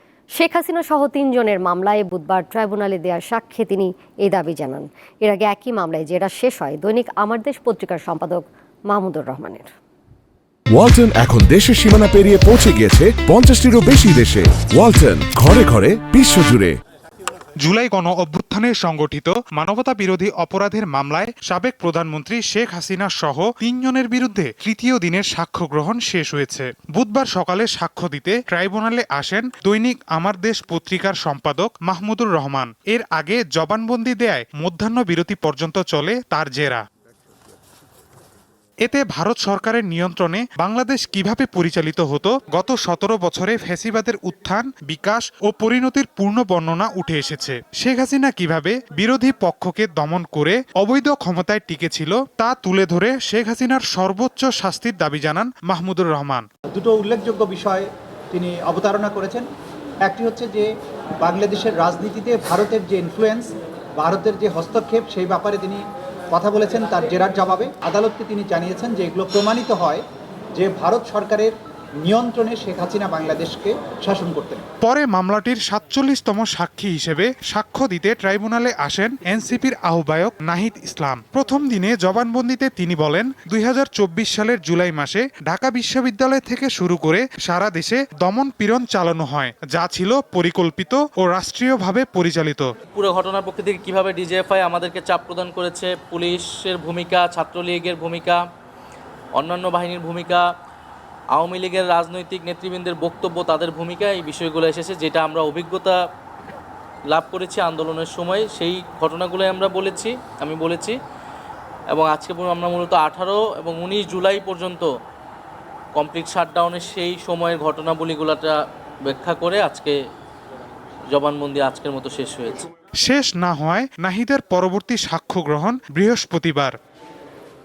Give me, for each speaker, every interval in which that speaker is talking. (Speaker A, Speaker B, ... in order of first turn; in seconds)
Speaker A: 0.3-9.7
Speaker B: 10.7-16.8
Speaker C: 17.6-36.8, 38.8-56.5, 74.8-92.7, 123.0-126.7
Speaker D: 56.7-59.5, 60.0-70.0, 70.5-74.7
Speaker E: 92.9-98.4, 99.3-100.5, 101.3-106.0, 107.1-111.0, 111.9-114.9, 115.9-120.0, 121.1-122.7